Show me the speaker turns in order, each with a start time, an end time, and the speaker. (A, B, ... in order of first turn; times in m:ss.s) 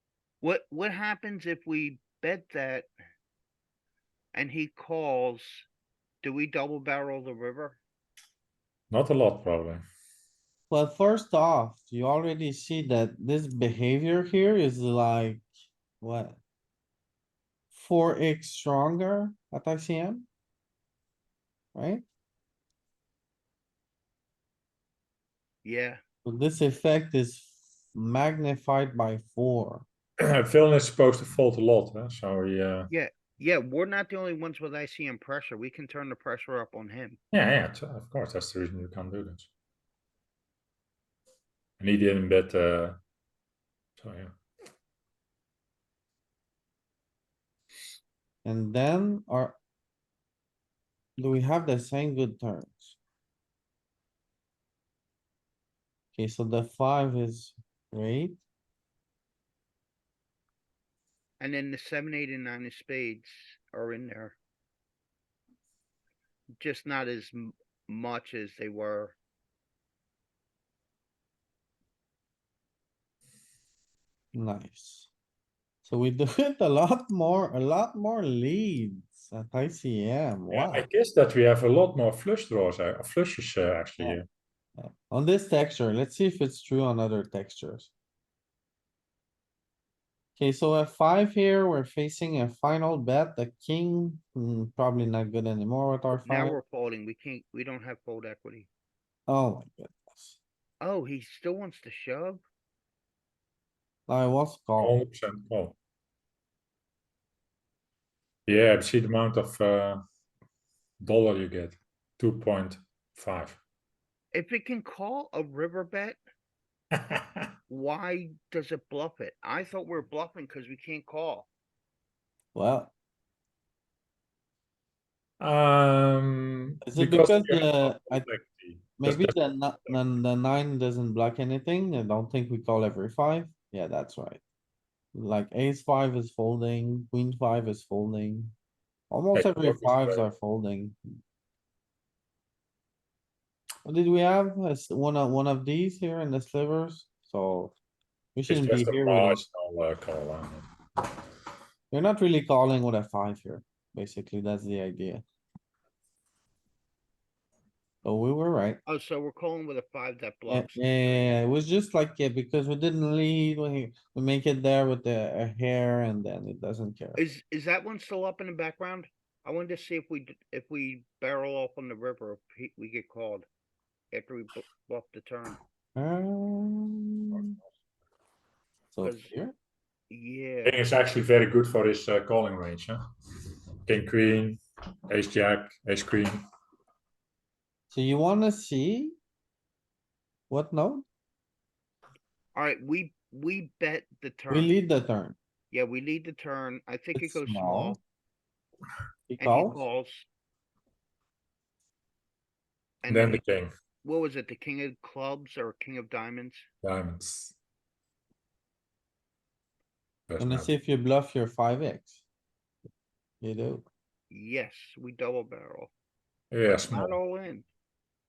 0:00.4-0:02.9 A
0:04.3-0:05.7 A
0:06.2-0:07.8 A
0:08.9-0:09.8 B
0:10.7-0:15.4 C
0:16.0-0:16.4 C
0:17.7-0:20.3 C
0:21.7-0:22.0 C
0:25.6-0:26.0 A
0:26.2-0:29.8 C
0:30.2-0:32.9 B
0:32.9-0:37.2 A
0:37.3-0:39.5 B
0:41.8-0:43.0 B
0:44.0-0:44.3 B
0:48.4-0:49.6 C
0:51.2-0:53.0 C
0:56.1-0:58.4 C
1:01.4-1:04.4 A
1:06.6-1:09.2 A
1:14.3-1:15.1 C
1:15.8-1:20.8 C
1:20.5-1:24.2 B
1:24.8-1:27.9 C
1:30.4-1:36.6 C
1:36.2-1:38.7 A
1:39.3-1:40.4 C
1:40.8-1:42.4 A
1:44.1-1:45.0 C
1:44.8-1:45.8 B
1:48.4-1:50.0 B
1:51.0-1:53.6 B
1:54.3-1:56.2 A
1:56.9-1:57.5 B
1:57.7-2:01.5 A
2:02.5-2:02.9 C
2:05.4-2:09.4 B
2:06.8-2:08.2 C
2:09.0-2:14.4 C
2:15.1-2:18.5 C
2:19.1-2:21.0 C
2:19.3-2:20.2 B
2:23.8-2:27.7 C
2:28.3-2:29.4 C
2:28.5-2:30.7 B
2:31.9-2:35.2 C
2:38.0-2:38.8 C
2:38.8-2:41.2 A
2:40.5-2:47.2 C
2:47.2-2:53.5 A
2:54.1-2:55.6 A
2:56.0-2:57.6 C
2:58.9-2:59.5 C
2:59.0-2:59.3 A
3:00.1-3:00.8 A
3:00.6-3:03.0 B
3:03.8-3:06.4 B
3:07.9-3:09.2 C
3:10.5-3:11.0 C
3:12.5-3:14.7 A
3:14.5-3:15.4 C
3:15.7-3:18.0 A
3:17.1-3:18.0 C
3:19.3-3:19.8 C
3:19.4-3:20.3 A
3:23.0-3:23.4 A
3:23.1-3:23.7 B
3:24.0-3:26.6 A
3:26.8-3:27.5 B
3:30.3-3:30.7 B
3:30.4-3:32.2 C
3:33.4-3:33.8 C
3:34.3-3:35.9 A
3:36.5-3:37.2 B
3:36.9-3:37.7 A